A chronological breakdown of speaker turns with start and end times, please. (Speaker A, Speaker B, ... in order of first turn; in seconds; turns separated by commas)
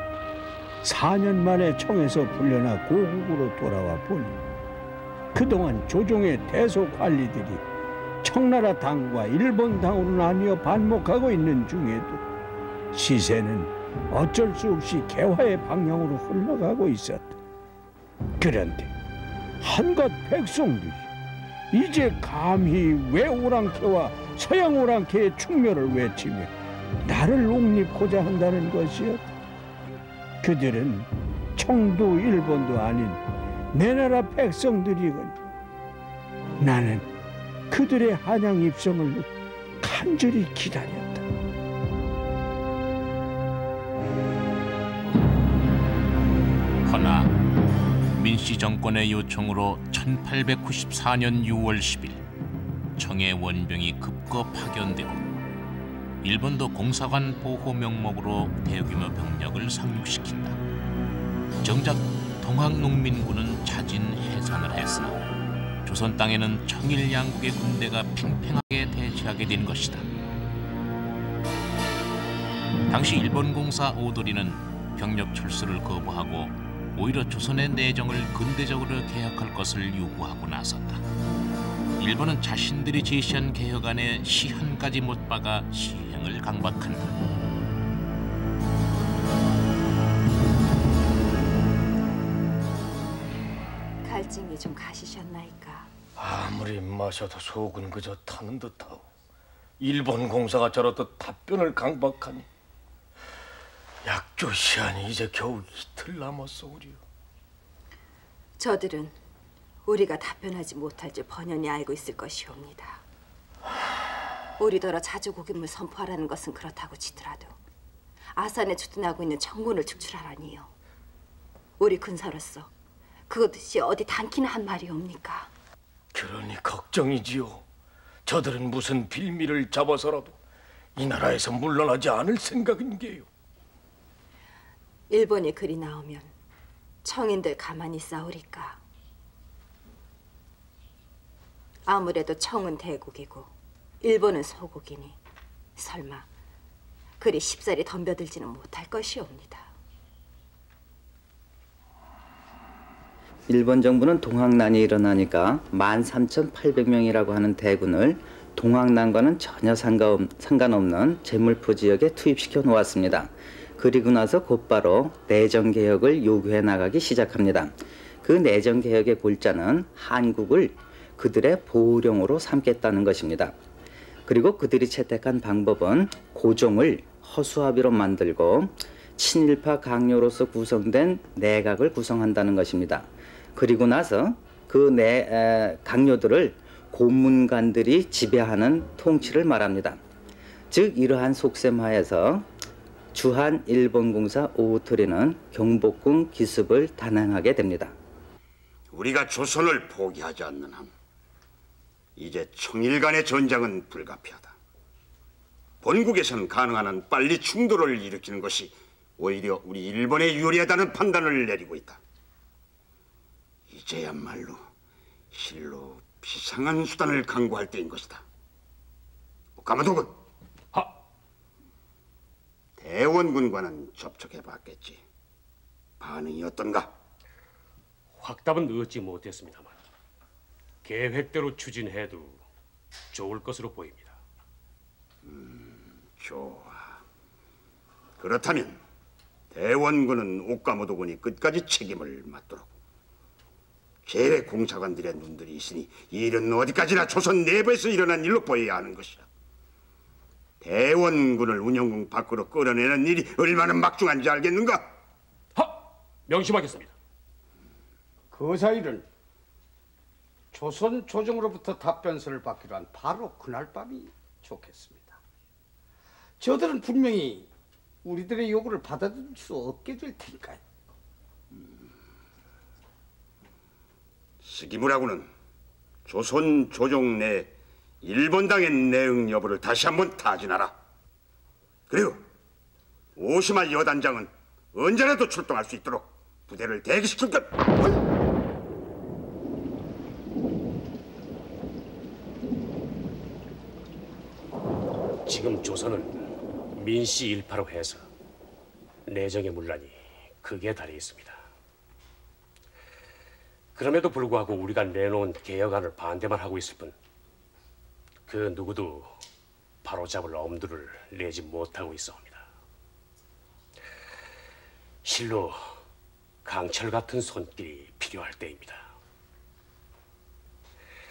Speaker A: 0.8-4.5, Speaker A: 5.3-7.6, Speaker A: 8.2-12.2, Speaker A: 12.9-17.4, Speaker A: 18.4-18.9, Speaker A: 19.6-21.1, Speaker A: 21.7-29.3, Speaker A: 30.4-35.3, Speaker A: 36.6-37.1, Speaker A: 37.7-39.3, Speaker A: 39.8-41.2, Speaker B: 46.8-47.3, Speaker B: 48.1-52.2, Speaker B: 53.0-55.2, Speaker B: 56.2-60.6, Speaker B: 61.6-65.2, Speaker B: 65.8-70.0, Speaker B: 72.9-81.0, Speaker B: 82.0-87.1, Speaker C: 94.0-95.9, Speaker D: 96.2-99.1, Speaker D: 99.8-102.5, Speaker D: 104.0-107.0, Speaker C: 108.6-109.2, Speaker C: 109.8-113.0, Speaker C: 114.6-117.6, Speaker C: 118.3-120.7, Speaker C: 121.8-122.7, Speaker C: 123.3-125.5, Speaker D: 126.1-127.6, Speaker D: 128.2-130.4, Speaker D: 130.9-133.3, Speaker C: 135.1-136.3, Speaker C: 137.0-138.8, Speaker C: 141.9-145.2, Speaker C: 145.8-146.3, Speaker C: 147.2-149.7, Speaker E: 153.5-173.5, Speaker E: 174.2-190.0, Speaker E: 190.7-192.5, Speaker E: 193.1-197.9, Speaker F: 198.9-200.9, Speaker F: 202.2-204.5, Speaker F: 205.8-212.0, Speaker F: 213.7-214.6, Speaker F: 215.3-218.2, Speaker F: 219.6-220.1, Speaker F: 222.8-225.0, Speaker F: 226.0-226.9, Speaker G: 228.2-229.8, Speaker G: 230.8-232.4, Speaker G: 233.1-234.2, Speaker F: 235.3-237.0, Speaker F: 238.2-238.8, Speaker F: 239.5-242.7, Speaker F: 244.1-249.2, Speaker F: 250.6-254.8, Speaker G: 256.3-256.9, Speaker H: 258.3-259.1, Speaker H: 260.5-265.2, Speaker H: 266.4-267.5, Speaker H: 268.0-270.6, Speaker F: 274.4-275.3, Speaker F: 276.1-277.5, Speaker F: 278.0-280.7, Speaker F: 281.9-282.2, Speaker F: 283.2-287.5, Speaker G: 295.2-296.2, Speaker G: 296.7-298.1, Speaker G: 299.1-301.4, Speaker G: 303.7-306.9, Speaker G: 308.3-309.1, Speaker G: 309.8-312.5, Speaker G: 315.0-315.8, Speaker G: 316.4-318.9